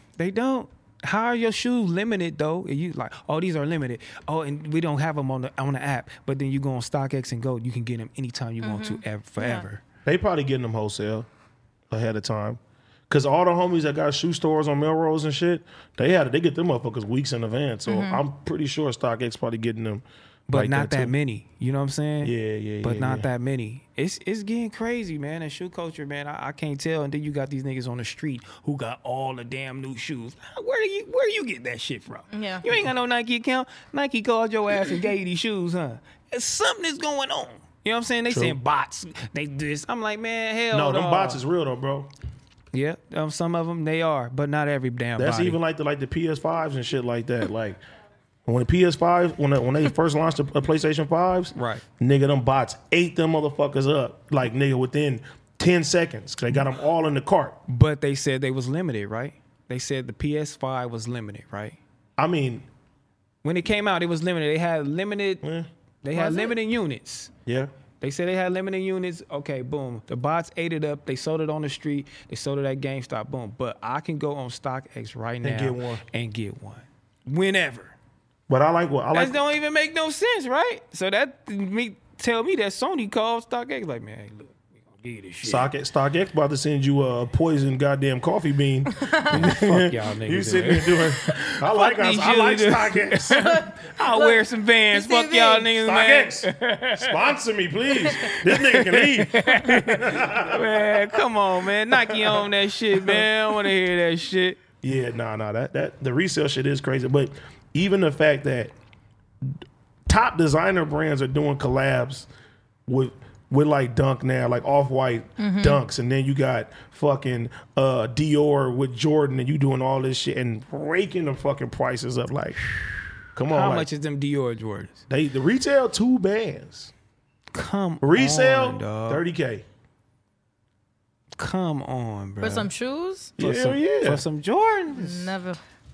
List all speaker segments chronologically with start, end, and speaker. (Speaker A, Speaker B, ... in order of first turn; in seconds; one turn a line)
Speaker A: 0.2-9.8
Speaker B: 8.6-9.7
Speaker C: 10.1-11.3
Speaker C: 11.9-21.1
Speaker B: 17.9-18.2
Speaker A: 20.5-41.4
Speaker C: 22.2-23.3
Speaker B: 32.3-32.7
Speaker C: 38.3-38.6
Speaker C: 40.7-42.1
Speaker A: 42.7-45.6
Speaker C: 45.2-47.8
Speaker C: 48.5-57.6
Speaker A: 51.5-51.8
Speaker A: 57.7-61.8
Speaker C: 62.2-62.7
Speaker A: 63.4-65.4
Speaker C: 65.4-66.5
Speaker A: 66.0-67.3
Speaker C: 67.5-67.7
Speaker A: 68.0-78.0
Speaker C: 75.4-76.0
Speaker C: 78.5-79.4
Speaker A: 79.1-85.7
Speaker C: 85.4-93.6
Speaker A: 89.3-97.2
Speaker B: 93.3-95.8
Speaker C: 95.8-101.2
Speaker A: 98.3-104.6
Speaker C: 101.9-102.5
Speaker C: 103.0-103.2
Speaker C: 104.8-108.7
Speaker C: 109.4-112.3
Speaker C: 112.9-122.6
Speaker B: 115.4-115.8
Speaker A: 122.8-125.0
Speaker C: 123.3-123.9
Speaker C: 125.1-126.9
Speaker A: 127.5-129.2
Speaker C: 128.0-129.6
Speaker A: 131.4-132.7
Speaker B: 132.4-133.3
Speaker C: 133.4-134.2
Speaker A: 133.4-135.3
Speaker B: 134.9-135.6